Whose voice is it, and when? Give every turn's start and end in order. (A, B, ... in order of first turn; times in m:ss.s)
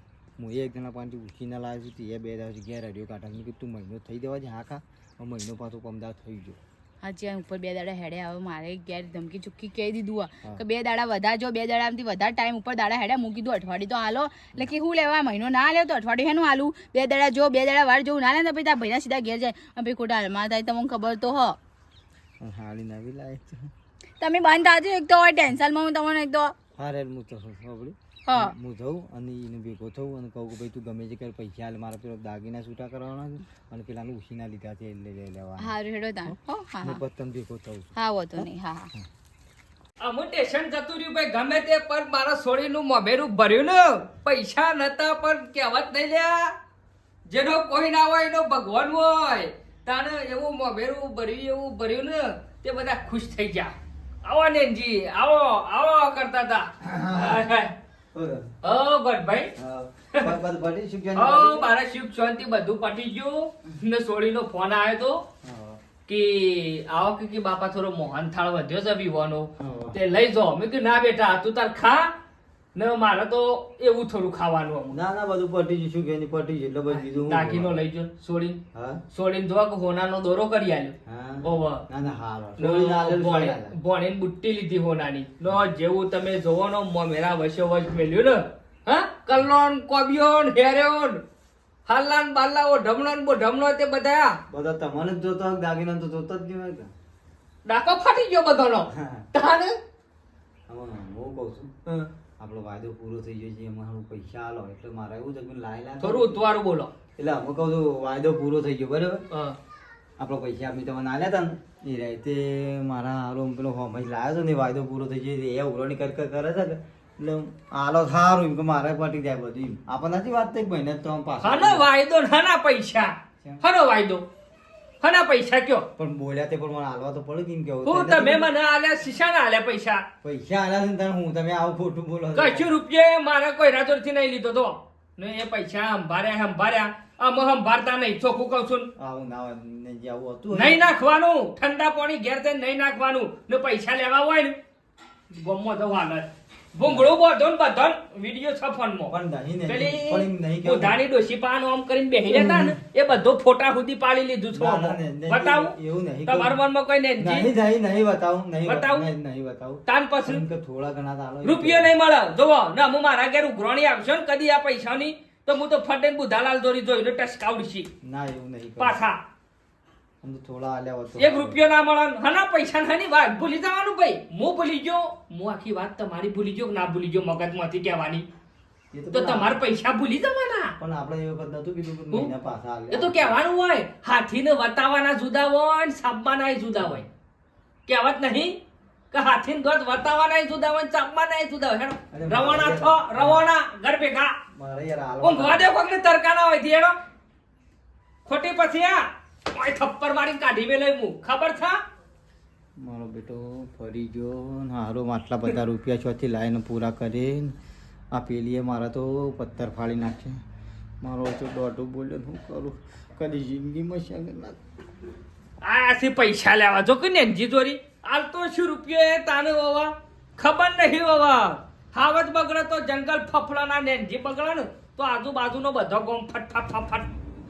0:00.4-0:06.6 A
0:07.0-0:21.6 B
0:22.4-0:23.7 A
0:24.2-0:26.5 B
0:26.8-0:39.1 A
0:28.3-0:28.5 B
0:35.6-0:37.0 B
0:38.0-0:38.9 B
0:40.0-0:46.5 C
0:47.3-0:57.7 C
0:56.8-0:57.4 A
0:58.1-0:58.5 A
0:58.6-0:59.5 C
0:59.6-1:01.7 A
1:01.1-1:05.2 C
1:05.4-1:05.8 A
1:06.1-1:12.1 C
1:09.6-1:10.0 A
1:12.7-1:15.0 C
1:14.9-1:17.7 A
1:17.2-1:18.6 C
1:18.7-1:19.0 A
1:19.1-1:21.8 C
1:21.0-1:23.8 A
1:22.6-1:31.2 C
1:31.8-1:34.4 C
1:34.5-1:36.9 A
1:37.6-1:39.8 C
1:38.9-1:39.3 A
1:40.7-1:41.7 A
1:42.4-1:46.4 A
1:46.0-1:46.9 C
1:47.2-1:49.2 A
1:49.3-1:49.6 C
1:50.2-2:01.8 A
2:01.4-2:04.2 C
2:05.0-2:05.9 C
2:06.0-2:08.5 A
2:07.8-2:10.0 C
2:10.2-2:12.7 A
2:12.3-2:18.9 C
2:19.0-2:20.9 A
2:20.5-2:24.6 C
2:25.3-2:29.1 C
2:29.1-2:31.0 A
2:29.7-2:35.7 C
2:32.3-2:32.8 A
2:34.5-2:36.6 A
2:36.3-2:37.5 C
2:37.2-2:41.9 A
2:38.6-2:39.1 C
2:39.8-2:40.4 C
2:41.4-2:47.9 C
2:48.0-2:49.0 A
2:48.8-2:49.2 C
2:50.2-2:51.6 A
2:51.2-2:58.3 C
2:58.9-2:59.5 A
2:59.1-3:00.8 C
3:00.8-3:03.3 A
3:02.9-3:07.1 C
3:06.8-3:07.0 A
3:07.9-3:08.6 C
3:09.1-3:14.4 C
3:12.1-3:13.4 A
3:14.5-3:15.7 A
3:15.2-3:17.0 C
3:18.2-3:21.8 C
3:22.8-3:27.5 A
3:28.1-3:30.4 A
3:31.0-3:34.6 A
3:35.6-3:47.1 C